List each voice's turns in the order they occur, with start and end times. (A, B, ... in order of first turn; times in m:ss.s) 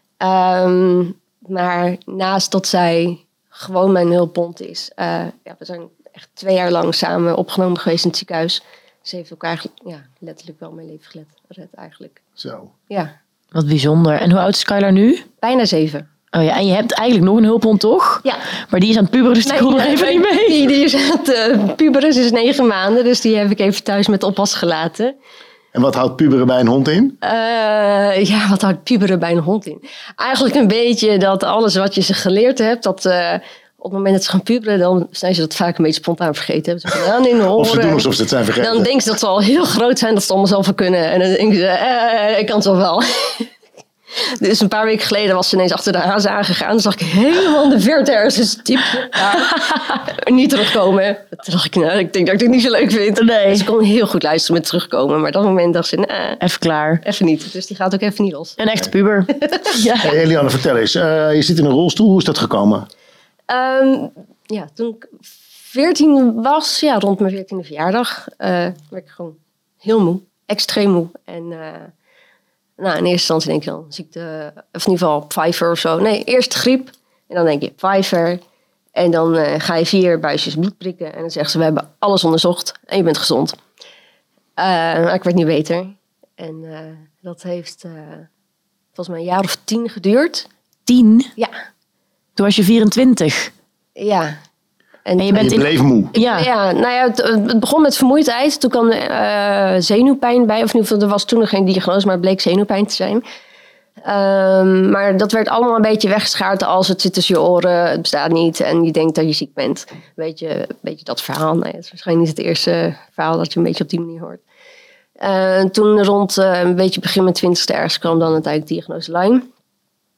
0:00.2-0:12.2 A
0:12.4-0:12.7 B
0:13.5-0:15.2 C
0:15.4-0:16.1 A
0:16.3-0:20.5 C
0:19.4-0:25.2 A
0:25.7-0:27.2 B
0:27.2-0:38.1 A
0:37.5-0:38.9 B
0:38.6-0:43.5 A
0:44.2-0:56.4 A
0:53.2-0:53.7 C
0:56.4-0:57.0 C
0:57.0-0:58.6 A
0:58.6-1:00.2 C
0:59.3-0:59.7 A
1:00.0-1:02.9 B
1:03.5-1:11.9 A
1:12.8-1:18.4 A
1:19.0-1:23.6 A
1:24.6-1:28.3 A
1:29.0-1:30.5 A
1:30.9-1:31.3 C
1:32.4-1:33.5 C
1:34.0-1:34.4 A
1:35.1-1:43.2 A
1:35.2-1:36.5 C
1:35.4-1:36.1 B
1:44.0-1:54.4 A
1:55.2-1:59.5 A